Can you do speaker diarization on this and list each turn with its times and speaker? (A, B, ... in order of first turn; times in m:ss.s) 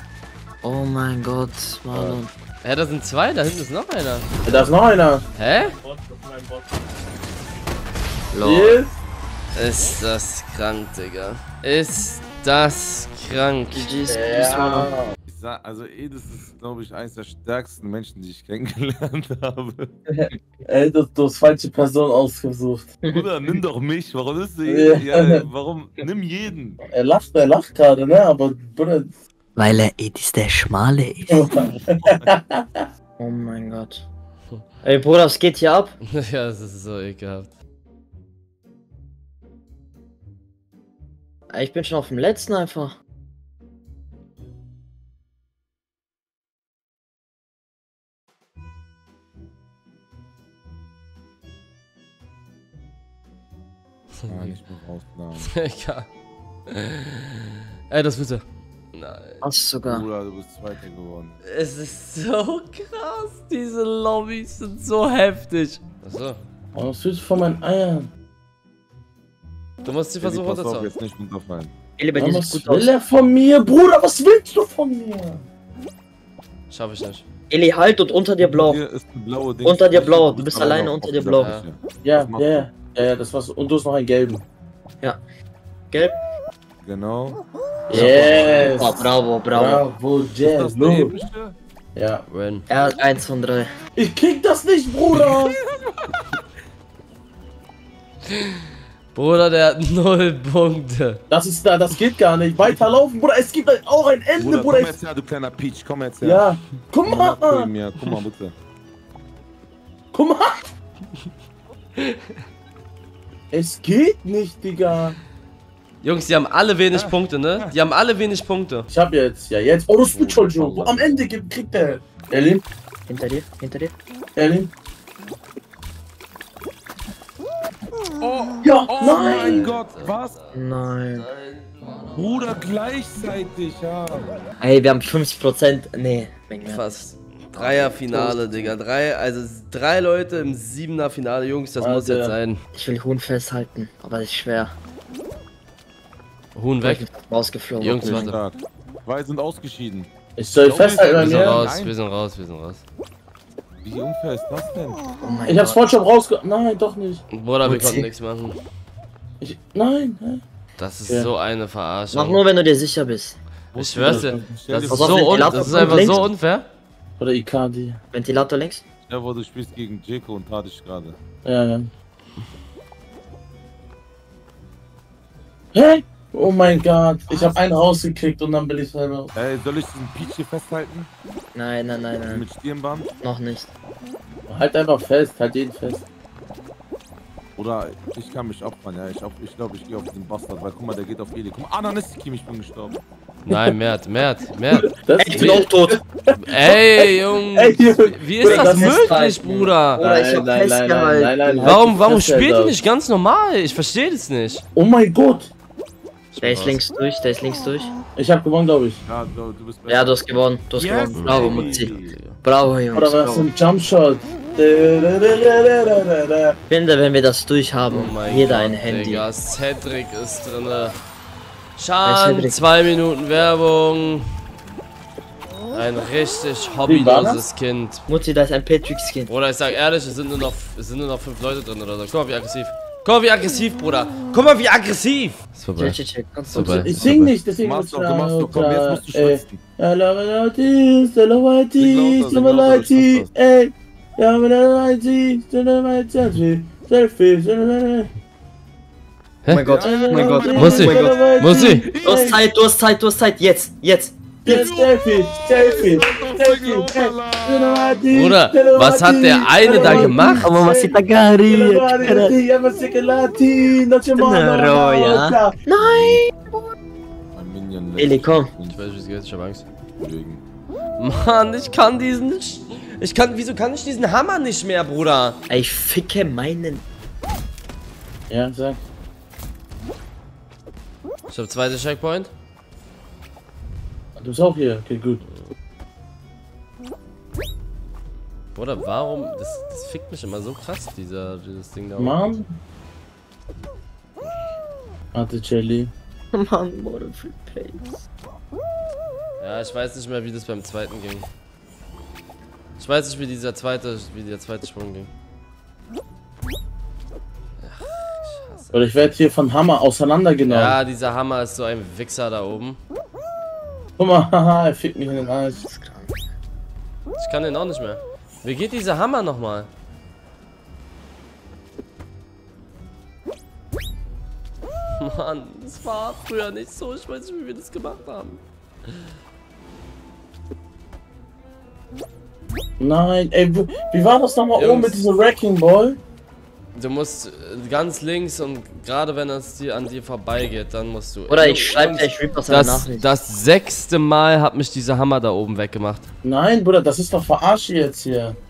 0:00.6-0:02.3 A
0:01.9-0:04.3 B
0:04.4-0:05.2 C
0:05.4-0:05.8 B
0:06.0-0:06.5 C
0:08.3-0:08.8 A
0:08.4-0:08.9 C
0:09.5-0:13.9 B
0:13.7-0:14.9 A
0:14.1-0:15.1 C
0:15.3-0:19.9 D
0:20.2-0:23.0 C
0:23.0-0:23.5 A
0:23.1-0:26.8 D
0:24.6-0:25.5 C
0:26.8-0:29.2 C
0:29.6-0:31.6 A
0:31.3-0:32.9 C
0:33.2-0:34.1 A
0:34.8-0:36.0 A
0:36.0-0:37.5 B
0:41.5-0:43.0 A
0:54.3-0:55.5 D
0:55.4-0:56.1 B
0:56.7-0:59.4 B
0:59.4-1:00.1 A
0:59.8-1:01.4 D
1:01.4-1:06.4 B
1:06.7-1:08.1 C
1:09.8-1:10.9 B
1:10.2-1:11.7 D
1:12.0-1:12.9 A
1:12.2-1:15.4 C
1:16.7-1:17.2 B
1:17.5-1:18.8 A
1:18.4-1:22.7 D
1:19.6-1:21.5 A
1:21.4-1:21.7 B
1:22.0-1:24.4 C
1:25.9-1:26.2 A
1:26.8-1:27.4 D
1:27.9-1:31.2 C
1:27.9-1:29.9 A
1:30.4-1:31.6 D
1:32.0-1:32.2 C
1:32.3-1:32.7 B
1:32.7-1:33.7 A
1:34.0-1:35.6 C
1:38.3-1:41.2 B
1:41.3-1:45.0 C
1:44.4-1:46.4 D
1:46.2-1:47.7 C
1:47.1-1:48.5 D
1:50.1-1:50.7 C
1:52.0-1:52.3 B
1:53.5-1:55.2 C
1:56.0-1:58.9 B
1:56.9-1:57.8 D
1:58.9-2:02.6 C
2:00.1-2:01.4 D
2:03.1-2:03.9 A
2:04.4-2:04.7 C
2:08.2-2:10.4 D
2:08.6-2:09.8 C
2:09.0-2:10.5 B
2:10.5-2:11.3 A
2:11.1-2:12.7 B
2:12.1-2:14.5 D
2:14.6-2:17.0 A
2:16.6-2:22.6 B
2:17.6-2:18.6 A
2:21.8-2:22.4 C
2:22.7-2:24.8 A
2:26.6-2:27.0 B
2:26.8-2:28.4 A
2:27.8-2:28.4 B
2:28.0-2:30.1 D
2:30.4-2:31.7 C
2:30.6-2:31.9 D
2:31.1-2:32.8 B
2:33.8-2:35.0 D
2:35.2-2:36.0 A
2:35.5-2:37.2 C
2:37.3-2:38.6 B
2:37.6-2:38.1 A
2:39.4-2:40.4 C
2:40.8-2:42.4 B
2:42.1-2:43.4 A
2:43.7-2:46.3 D
2:43.8-2:46.7 B
2:43.9-2:44.6 C
2:44.9-2:46.2 A
2:45.6-2:46.3 C
2:47.2-2:48.0 C
2:48.1-2:48.8 A
2:49.1-2:51.2 D
2:51.4-2:51.9 C
2:55.7-2:59.3 C
2:59.3-3:01.1 D
3:01.6-3:02.4 A
3:02.3-3:03.1 D
3:03.2-3:03.7 A
3:04.5-3:06.0 C
3:07.6-3:13.0 D
3:13.5-3:14.9 B
3:14.7-3:19.2 C
3:15.2-3:16.0 A
3:16.5-3:20.0 B
3:18.4-3:21.9 A
3:20.0-3:22.8 C
3:21.6-3:24.6 B
3:24.8-3:25.5 C
3:26.3-3:26.8 B
3:26.4-3:27.9 A
3:28.2-3:29.0 C
3:29.0-3:32.2 D
3:29.9-3:31.9 A
3:31.2-3:32.4 B
3:32.4-3:33.5 A
3:32.9-3:36.6 C
3:36.7-3:39.2 A
3:37.9-3:41.0 B
3:41.8-3:44.3 B
3:42.0-3:42.6 A
3:45.7-3:48.1 B
3:46.8-3:47.4 C
3:48.1-3:49.3 A
3:49.3-3:56.0 B
3:55.8-3:57.1 A
3:56.5-3:56.9 B
3:56.5-4:08.1 C
3:57.0-3:59.6 D
4:01.8-4:03.3 D
4:09.4-4:09.7 B
4:09.5-4:11.2 A
4:09.6-4:10.6 D
4:09.8-4:12.4 C
4:10.5-4:11.9 B
4:11.9-4:12.4 D
4:12.0-4:14.7 A
4:14.4-4:25.6 C
4:14.5-4:18.0 D
4:18.1-4:20.5 B
4:19.7-4:22.4 A
4:24.2-4:26.6 A
4:25.8-4:26.2 D
4:27.3-4:28.8 D
4:28.0-4:28.5 A
4:28.7-4:29.6 B
4:30.0-4:30.4 D
4:31.0-4:35.4 B
4:35.5-4:36.8 A
4:38.3-4:38.8 C
4:41.3-4:42.3 B
4:44.2-4:45.2 C
4:45.2-4:45.5 B
4:48.6-4:52.4 B
4:52.0-4:52.5 C
4:55.1-4:55.9 C
4:56.3-4:58.0 A
4:59.4-5:01.3 B
5:02.8-5:05.1 B
5:07.6-5:08.8 B
5:08.7-5:10.8 C
5:10.5-5:12.8 B
5:14.0-5:15.8 C
5:15.7-5:16.1 A
5:17.2-5:19.7 B
5:25.0-5:29.1 B
5:32.8-5:36.0 C
5:34.6-5:35.0 B
5:36.7-5:46.1 B
5:41.3-5:43.1 A
5:46.2-5:48.4 C